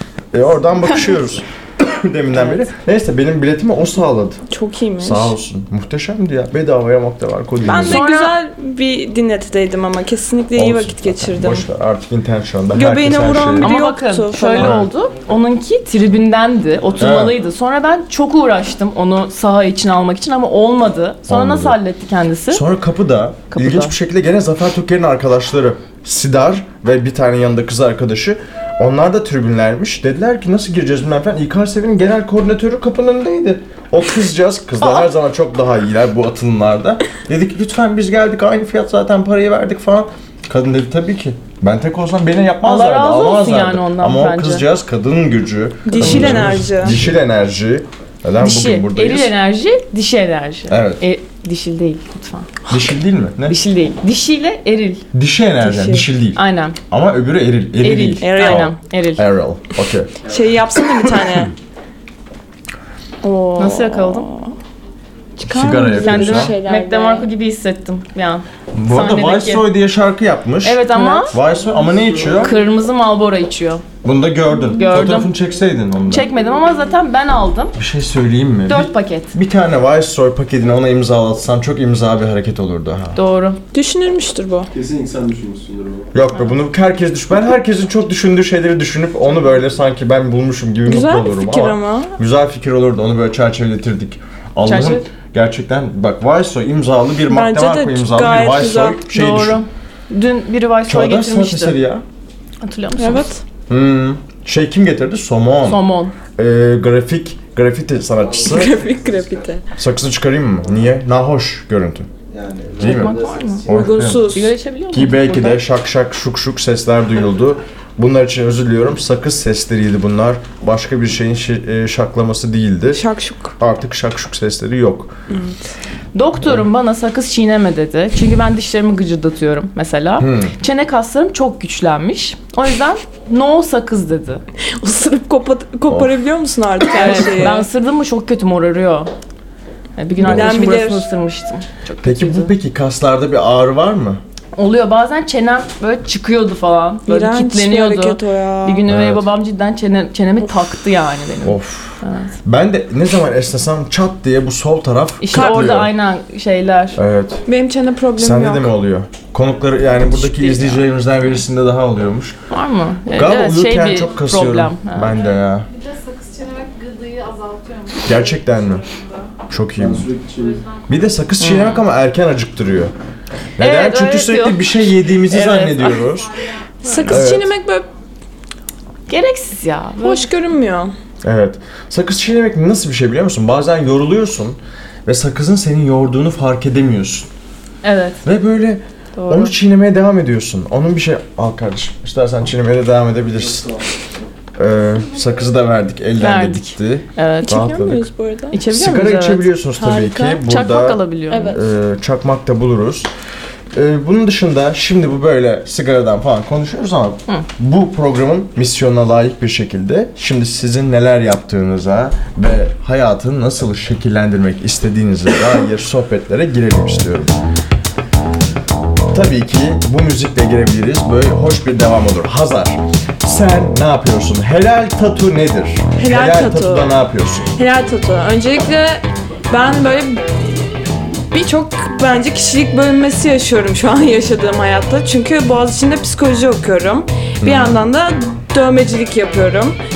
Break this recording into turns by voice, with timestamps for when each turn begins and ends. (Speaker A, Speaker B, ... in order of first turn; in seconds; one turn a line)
Speaker A: 0.3-4.4
Speaker B: 4.5-5.3
Speaker A: 5.0-8.1
Speaker B: 7.6-11.7
Speaker C: 7.8-8.3
Speaker A: 10.6-13.8
Speaker B: 12.7-14.8
Speaker C: 13.6-22.6
Speaker A: 14.6-14.9
Speaker A: 17.0-17.4
Speaker A: 21.3-21.8
Speaker A: 22.5-49.3
Speaker C: 23.5-23.9
Speaker C: 34.8-35.1
Speaker C: 42.6-44.6
Speaker B: 45.9-47.0
Speaker C: 48.4-52.5
Speaker A: 50.7-51.0
Speaker A: 52.7-53.6
Speaker C: 53.5-55.0
Speaker A: 55.1-60.1
Speaker B: 55.6-56.0
Speaker C: 56.4-56.8
Speaker C: 57.8-59.2
Speaker B: 58.2-58.7
Speaker B: 60.2-61.5
Speaker A: 61.1-61.5
Speaker B: 63.2-64.5
Speaker C: 63.5-64.3
Speaker B: 65.4-67.3
Speaker A: 65.4-66.5
Speaker C: 65.9-69.7
Speaker A: 68.7-72.5
Speaker C: 70.6-71.4
Speaker D: 71.6-72.3
Speaker C: 72.3-73.8
Speaker A: 74.0-76.3
Speaker C: 74.7-75.3
Speaker C: 76.1-77.8
Speaker A: 77.7-83.2
Speaker C: 78.7-79.3
Speaker C: 83.2-83.6
Speaker B: 83.7-84.7
Speaker D: 84.7-86.1
Speaker A: 86.1-99.6
Speaker B: 90.8-92.2
Speaker C: 94.6-95.0
Speaker B: 97.3-99.1
Speaker C: 99.1-101.8
Speaker A: 100.8-102.0
Speaker C: 102.6-103.3
Speaker B: 103.0-103.4
Speaker A: 103.7-105.8
Speaker C: 105.6-106.1
Speaker A: 106.3-108.8
Speaker B: 108.4-109.6
Speaker A: 109.8-112.1
Speaker A: 112.8-114.4
Speaker C: 112.8-113.7
Speaker B: 113.7-114.5
Speaker C: 114.2-115.6
Speaker A: 114.9-123.0
Speaker B: 122.9-123.5
Speaker A: 123.6-125.1
Speaker B: 125.3-125.5
Speaker C: 126.1-134.4
Speaker A: 130.2-130.5
Speaker B: 134.7-137.6
Speaker C: 136.9-139.1
Speaker A: 137.0-137.3
Speaker C: 140.0-142.5
Speaker B: 140.2-141.1
Speaker A: 140.2-140.8
Speaker A: 142.0-144.2
Speaker C: 144.6-152.3
Speaker B: 147.1-148.8
Speaker A: 148.8-149.3
Speaker A: 151.4-155.9
Speaker C: 155.2-157.0
Speaker B: 155.3-155.8
Speaker A: 156.9-157.4
Speaker B: 157.5-158.7
Speaker A: 158.2-162.4
Speaker C: 160.1-160.8
Speaker C: 162.5-165.3
Speaker A: 163.1-165.7
Speaker E: 165.2-169.4
Speaker A: 168.0-168.8
Speaker A: 169.5-170.1
Speaker D: 169.8-170.7
Speaker E: 170.4-170.9
Speaker A: 170.9-172.9
Speaker C: 171.4-171.8
Speaker A: 173.6-176.3
Speaker C: 173.6-176.1
Speaker E: 176.2-176.6
Speaker B: 176.8-177.9
Speaker A: 177.1-177.5
Speaker C: 179.1-180.3
Speaker B: 180.0-180.9
Speaker A: 181.2-187.3
Speaker C: 187.8-188.2
Speaker A: 188.2-193.8
Speaker C: 189.2-189.5
Speaker D: 193.4-194.2
Speaker A: 194.6-198.1
Speaker C: 196.2-197.6
Speaker B: 197.4-198.6
Speaker C: 198.5-199.5
Speaker A: 198.7-203.1
Speaker B: 199.8-200.4
Speaker C: 200.4-201.6
Speaker B: 201.3-201.6
Speaker A: 203.7-217.3
Speaker A: 219.1-227.5
Speaker B: 226.0-227.0
Speaker B: 227.5-230.7
Speaker B: 231.3-239.8
Speaker A: 237.4-237.8